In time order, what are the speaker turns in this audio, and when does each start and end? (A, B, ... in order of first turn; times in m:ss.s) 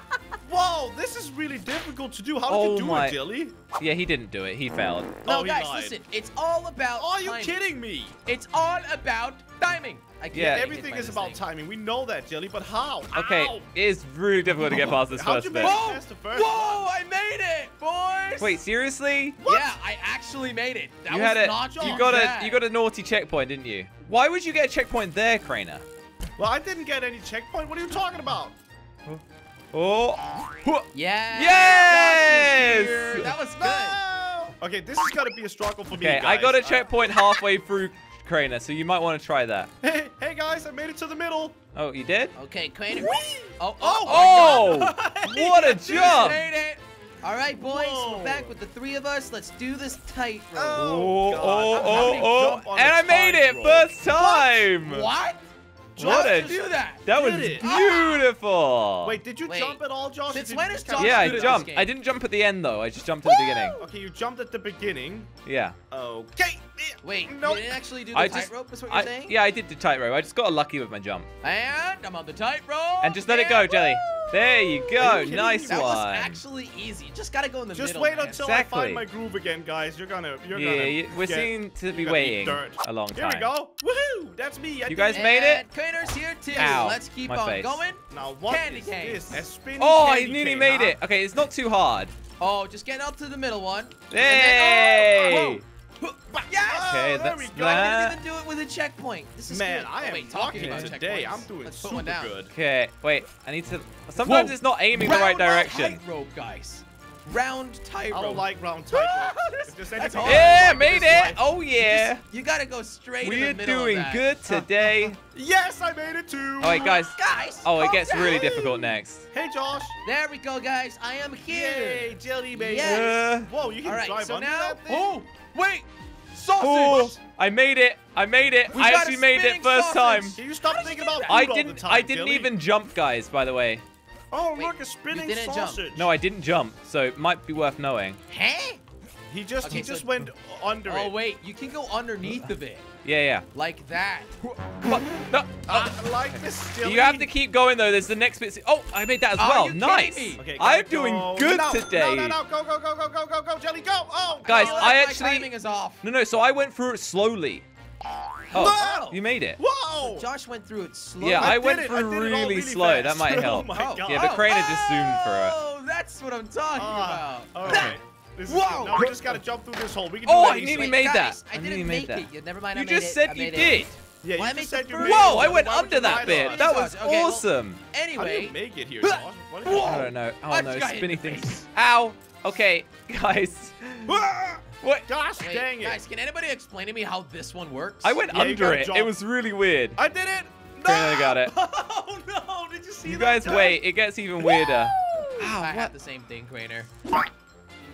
0:00.4-0:03.6 A
0:02.4-0:03.2 B
0:03.8-0:05.2 B
0:05.2-0:05.9 A
0:05.2-0:07.6 C
0:06.9-0:08.1 A
0:08.2-0:11.4 C
0:10.3-0:10.7 B
0:10.3-0:13.6 A
0:13.1-0:15.8 B
0:14.6-0:16.8 A
0:15.6-0:18.6 C
0:18.4-0:19.4 B
0:19.4-0:19.8 A
0:19.4-0:22.6 C
0:21.1-0:25.8 B
0:21.7-0:22.1 A
0:26.4-0:28.5 A
0:29.7-0:33.3 B
0:30.9-0:34.0 C
0:33.6-0:36.9 A
0:36.0-0:39.7 B
0:39.8-0:41.6 A
0:41.7-0:42.3 B
0:42.4-0:52.6 C
0:43.0-0:46.4 A
0:44.0-0:46.4 B
0:47.6-0:48.5 A
0:50.5-0:54.7 A
0:50.7-0:55.1 B
0:54.2-0:55.4 C
0:56.0-0:57.7 A
0:56.0-0:58.3 C
0:56.0-0:59.2 B
0:59.0-1:01.7 A
0:59.4-1:01.9 C
1:01.0-1:03.8 B
1:03.2-1:03.8 C
1:03.8-1:05.3 A
1:05.4-1:05.8 B
1:05.9-1:07.8 A
1:07.0-1:09.4 C
1:08.1-1:11.3 B
1:11.4-1:14.0 C
1:13.0-1:16.4 B
1:13.3-1:15.9 A
1:15.6-1:18.5 C
1:17.7-1:25.3 A
1:18.4-1:19.0 B
1:20.5-1:23.5 B
1:24.9-1:25.6 B
1:25.1-1:29.4 C
1:26.5-1:27.8 B
1:28.1-1:31.0 A
1:29.8-1:32.1 B
1:32.4-1:42.3 C
1:34.1-1:35.6 B
1:36.4-1:37.9 A
1:36.8-1:38.2 B
1:39.5-1:42.5 A
1:40.5-1:40.9 B
1:42.5-1:46.0 B
1:44.2-1:54.3 C
1:48.1-1:51.4 A
1:50.2-1:52.2 B
1:53.2-1:55.1 B
1:54.5-1:57.1 A
1:56.6-1:59.3 B
1:56.8-1:58.8 C
1:58.1-2:00.0 A
2:00.0-2:03.2 C
2:01.5-2:05.1 A
2:02.8-2:03.5 B
2:03.8-2:07.2 C
2:06.6-2:10.4 B
2:06.8-2:07.2 A
2:08.7-2:11.4 C
2:10.4-2:12.5 A
2:11.3-2:13.8 B
2:14.3-2:16.1 A
2:14.6-2:15.8 C
2:15.9-2:18.2 B
2:18.3-2:18.8 C
2:19.3-2:21.2 A
2:19.6-2:20.2 C
2:20.8-2:22.9 C
2:23.0-2:23.4 B
2:23.5-2:25.0 C
2:24.8-2:32.4 B
2:25.7-2:27.3 A
2:29.4-2:30.4 C
2:30.4-2:35.0 A
2:34.4-2:36.0 C
2:34.4-2:35.5 B
2:36.0-2:37.6 B
2:38.5-2:39.2 C
2:38.5-2:39.6 B
2:38.5-2:40.3 A
2:40.0-2:41.6 C
2:41.2-2:45.6 B
2:41.3-2:44.5 A
2:43.6-2:49.1 C
2:46.7-2:51.0 A
2:47.7-2:47.9 B
2:50.2-2:54.0 B
2:50.3-3:01.7 C
2:54.2-2:56.7 A
2:55.0-2:57.8 B
2:58.1-3:00.1 A
2:59.7-3:04.2 B
3:04.1-3:06.0 A
3:04.8-3:05.1 B
3:05.4-3:08.2 C
3:08.0-3:10.0 B
3:08.3-3:09.1 A
3:10.0-3:13.8 A
3:10.8-3:11.5 B
3:13.0-3:15.9 B
3:14.4-3:15.5 A
3:15.6-3:16.9 C